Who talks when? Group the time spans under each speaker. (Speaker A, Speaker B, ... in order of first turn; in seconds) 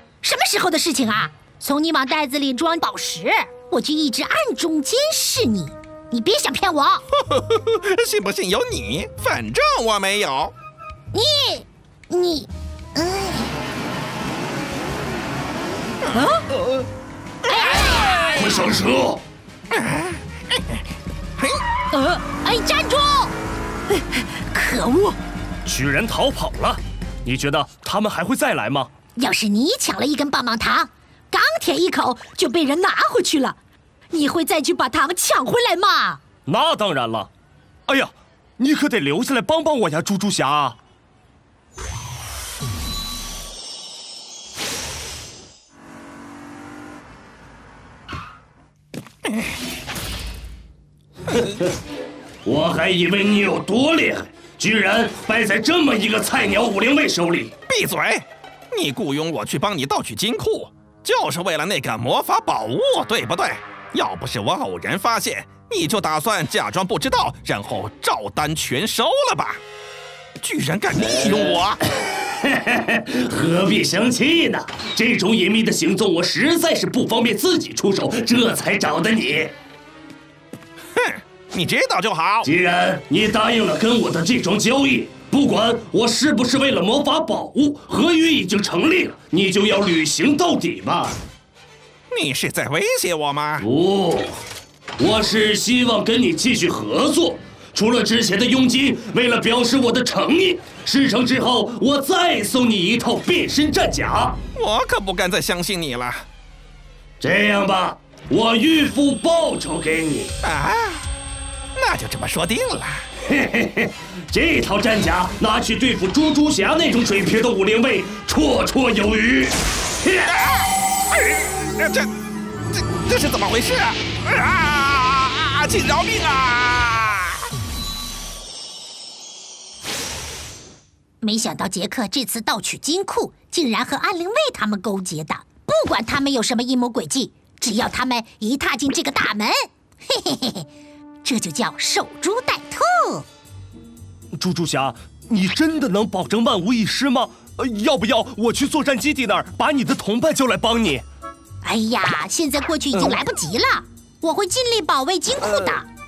Speaker A: 0.2-7.0, 11.1-13.5, 16.1-16.4, 17.5-18.6, 21.9-23.3, 23.9-25.2, 29.2-33.5, 34.1-36.2, 131.2-139.5, 140.2-140.6, 141.2-143.2, 151.6-155.8
Speaker B: 7.2-10.5, 19.7-20.8, 57.7-69.6, 70.4-71.8, 80.9-82.5, 92.1-93.6, 104.5-106.3, 110.4-111.0, 111.8-113.0, 120.3-122.1, 122.7-127.5
Speaker C: 18.3-19.2, 25.6-28.9, 36.5-37.3, 37.9-40.8, 52.4-57.5, 72.3-79.5, 82.4-91.2, 93.6-94.4, 95.0-104.4, 107.2-110.3, 113.3-120.3, 144.3-151.0, 155.4-155.8